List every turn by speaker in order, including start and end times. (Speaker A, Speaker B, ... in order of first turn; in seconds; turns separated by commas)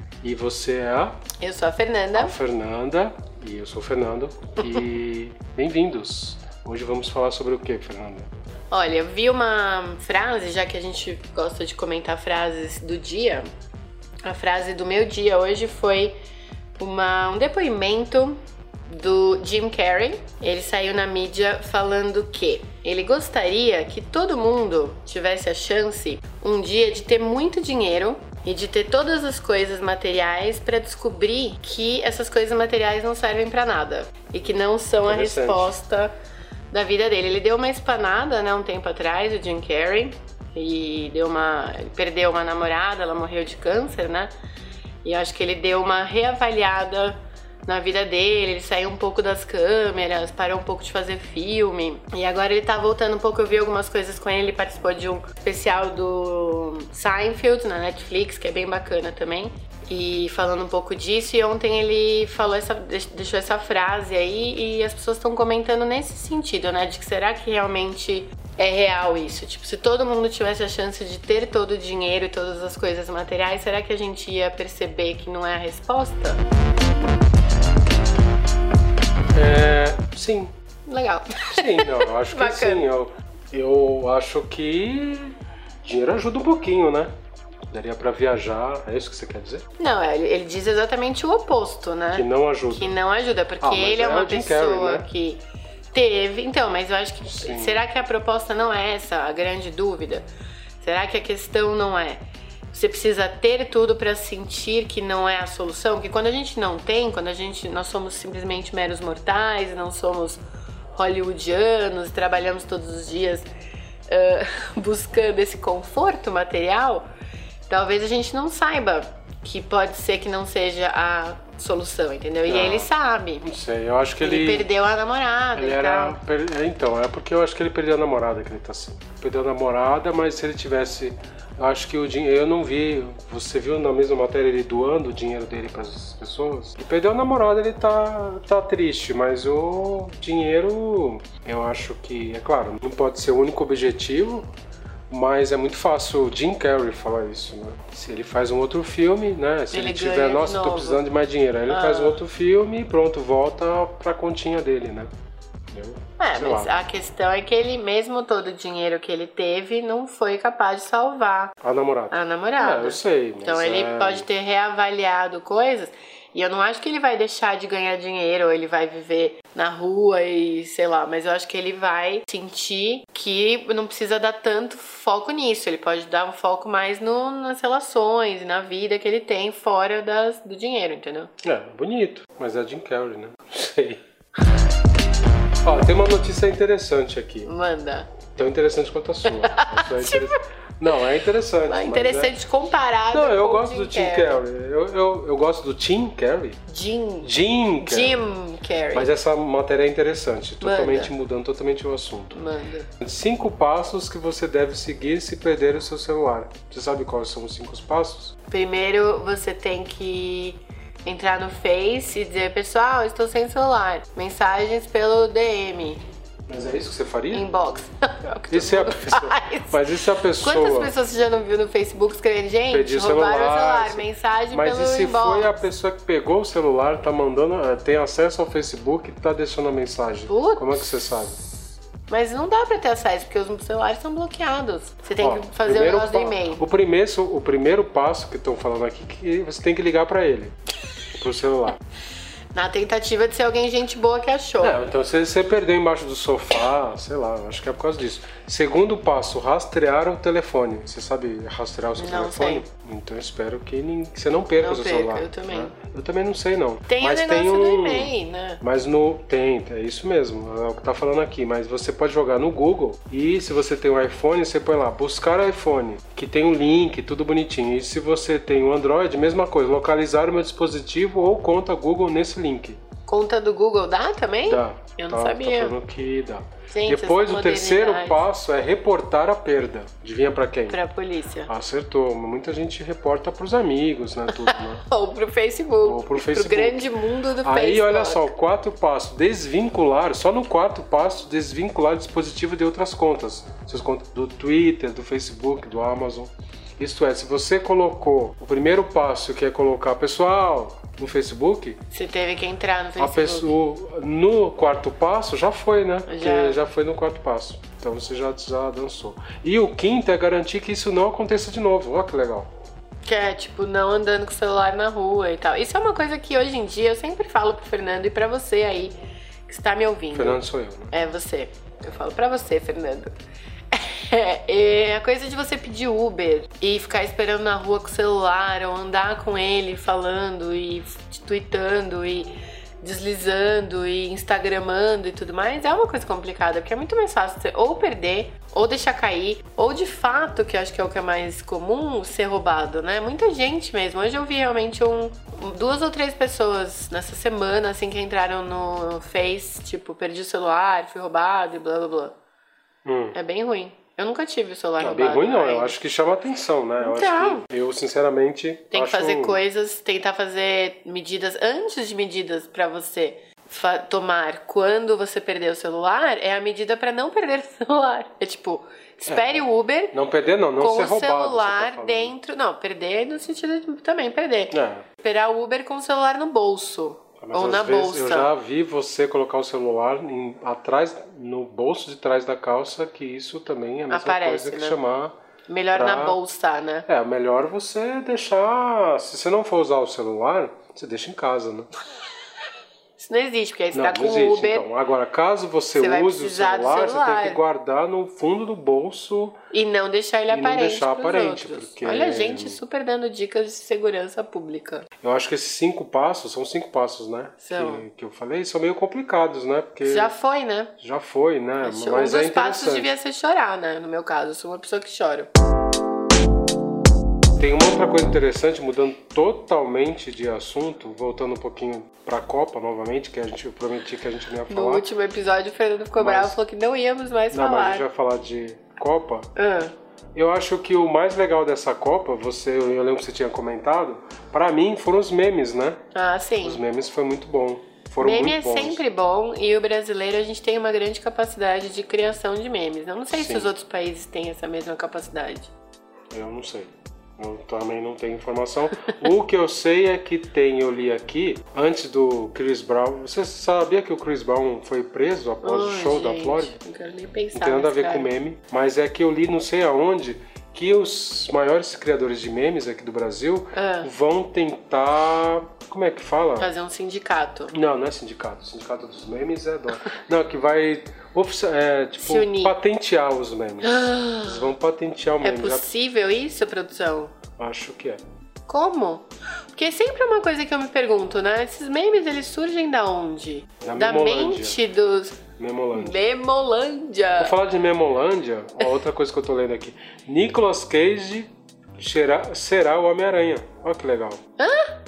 Speaker A: 0.2-1.2, Speaker B: 1.4-2.4, Speaker A: 2.1-8.3, Speaker B: 8.7-13.5, Speaker B: 14.2-16.2, Speaker B: 16.8-36.1, Speaker A: 35.0-35.7, Speaker B: 36.7-44.3, Speaker B: 45.0-76.4, Speaker A: 79.3-80.5, Speaker B: 80.9-82.9, Speaker A: 81.5-87.1, Speaker A: 87.7-89.7, Speaker B: 89.8-100.3, Speaker A: 92.1-93.0, Speaker A: 93.6-95.1, Speaker A: 97.2-97.8, Speaker B: 100.8-110.4, Speaker B: 111.0-113.5, Speaker B: 114.1-117.0, Speaker B: 117.7-123.5, Speaker A: 122.5-122.9, Speaker A: 123.4-124.7, Speaker B: 124.2-126.2, Speaker A: 125.5-144.5, Speaker A: 145.1-155.1, Speaker B: 149.7-151.0, Speaker B: 151.7-152.2, Speaker A: 155.7-156.8, Speaker B: 156.2-161.6, Speaker A: 161.6-164.3, Speaker B: 162.1-181.3, Speaker A: 181.4-184.0, Speaker A: 185.6-187.5, Speaker B: 187.4-188.2, Speaker A: 188.3-192.3, Speaker B: 189.2-190.4, Speaker B: 191.7-194.4, Speaker A: 193.1-196.6, Speaker B: 196.7-199.2, Speaker A: 197.2-198.2, Speaker A: 198.9-202.4, Speaker B: 200.6-201.1, Speaker B: 202.3-202.9, Speaker A: 203.0-208.3, Speaker B: 208.5-216.0, Speaker A: 216.5-217.5, Speaker B: 217.3-219.8, Speaker A: 218.5-220.9, Speaker B: 220.3-225.7, Speaker A: 222.7-231.4, Speaker B: 230.3-231.3, Speaker B: 232.1-236.6, Speaker A: 235.2-240.6, Speaker A: 241.2-241.8, Speaker B: 242.5-244.8, Speaker A: 244.6-272.8, Speaker B: 252.0-252.7, Speaker B: 254.6-255.7, Speaker B: 256.9-258.6, Speaker B: 273.1-275.8, Speaker A: 274.4-280.8, Speaker B: 276.7-278.3, Speaker B: 280.7-281.5, Speaker A: 281.5-284.8, Speaker B: 284.5-288.3, Speaker A: 285.8-286.9, Speaker A: 287.4-301.8, Speaker B: 301.9-303.5, Speaker A: 303.0-312.5, Speaker B: 306.1-306.6, Speaker B: 313.0-323.1, Speaker A: 320.1-320.9, Speaker B: 323.7-352.1, Speaker A: 352.8-353.2, Speaker B: 353.1-355.8, Speaker A: 354.8-359.4, Speaker B: 356.8-357.5, Speaker B: 358.7-369.9, Speaker A: 369.1-372.1, Speaker B: 370.6-378.3, Speaker A: 374.5-374.9, Speaker A: 377.2-385.2, Speaker B: 383.9-384.8, Speaker B: 385.5-386.9, Speaker A: 385.7-386.2, Speaker A: 386.9-391.7, Speaker B: 393.0-394.7, Speaker A: 393.7-399.4, Speaker B: 395.8-397.4, Speaker B: 399.5-404.9, Speaker A: 400.3-402.6, Speaker A: 405.0-410.1, Speaker B: 407.4-407.8, Speaker B: 409.8-410.8, Speaker A: 410.8-412.9, Speaker B: 411.6-415.3, Speaker A: 417.4-424.9, Speaker B: 424.5-427.8, Speaker A: 426.0-426.4, Speaker A: 427.3-429.3, Speaker B: 429.4-429.7, Speaker A: 430.1-435.8, Speaker B: 435.9-436.6, Speaker A: 436.4-438.8, Speaker B: 438.0-445.5, Speaker A: 443.1-443.5, Speaker A: 446.1-456.6, Speaker B: 455.4-458.1, Speaker A: 457.3-466.5, Speaker B: 463.5-463.9, Speaker B: 466.4-467.5, Speaker A: 467.5-475.7, Speaker B: 472.0-472.6, Speaker B: 473.6-474.5, Speaker B: 475.2-477.2, Speaker A: 477.4-478.0, Speaker B: 478.5-485.2, Speaker A: 483.6-484.6, Speaker A: 485.4-486.0, Speaker B: 485.7-487.3, Speaker A: 487.2-494.2, Speaker B: 494.4-494.8